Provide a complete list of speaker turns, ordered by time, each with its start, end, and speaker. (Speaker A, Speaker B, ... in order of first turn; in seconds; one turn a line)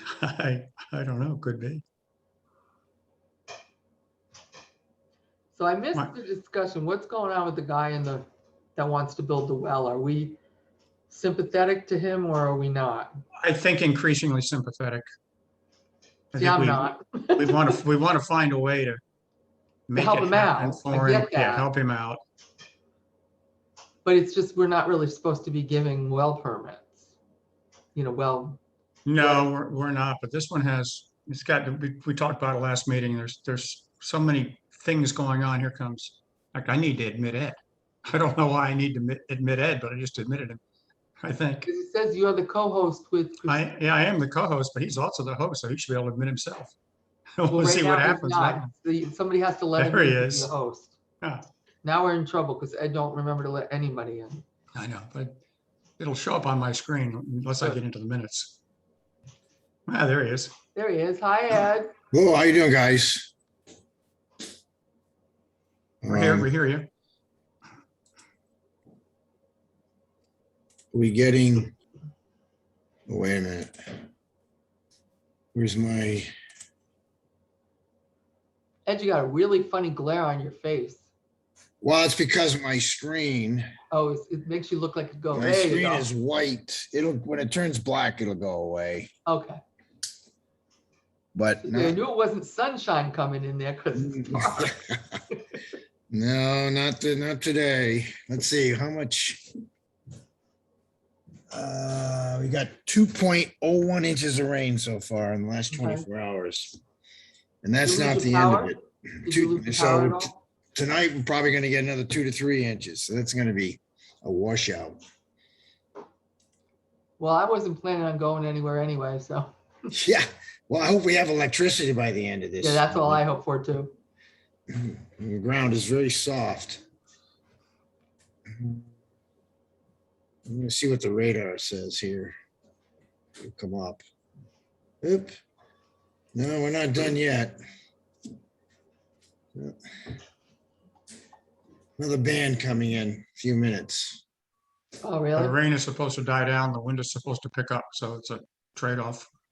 Speaker A: 0.1-1.8
Speaker B: 5.5-10.4
Speaker B: 11.1-13.1
Speaker A: 13.4-15.0
Speaker A: 16.3-19.0
Speaker B: 16.4-17.7
Speaker A: 19.9-22.2
Speaker B: 19.9-21.7
Speaker B: 24.0-26.9
Speaker B: 27.9-28.6
Speaker A: 29.1-40.6
Speaker B: 29.2-29.4
Speaker A: 41.2-41.7
Speaker B: 41.6-43.6
Speaker A: 43.4-46.7
Speaker A: 47.4-48.7
Speaker B: 47.5-51.0
Speaker A: 49.8-50.5
Speaker B: 51.8-54.4
Speaker A: 54.7-55.4
Speaker A: 56.0-58.5
Speaker A: 59.9-60.5
Speaker B: 60.7-61.9
Speaker C: 62.1-63.3
Speaker C: 66.0-66.5
Speaker A: 66.1-66.9
Speaker C: 70.9-71.7
Speaker C: 73.1-73.7
Speaker C: 75.5-76.3
Speaker B: 78.8-81.0
Speaker C: 81.8-83.7
Speaker B: 83.9-86.1
Speaker C: 85.3-89.1
Speaker B: 89.2-89.6
Speaker C: 91.3-92.0
Speaker B: 91.6-94.8
Speaker C: 93.9-95.0
Speaker C: 96.1-99.4
Speaker C: 101.5-106.8
Speaker B: 105.7-106.0
Speaker C: 107.6-115.0
Speaker B: 107.8-110.3
Speaker B: 117.2-119.5
Speaker C: 119.9-123.2
Speaker B: 122.6-123.9
Speaker C: 124.7-126.8
Speaker C: 128.5-128.8
Speaker C: 130.4-132.3
Speaker C: 133.4-134.0
Speaker C: 135.0-135.3
Speaker C: 136.3-137.6
Speaker C: 142.0-144.2
Speaker B: 145.0-145.6
Speaker A: 145.4-149.3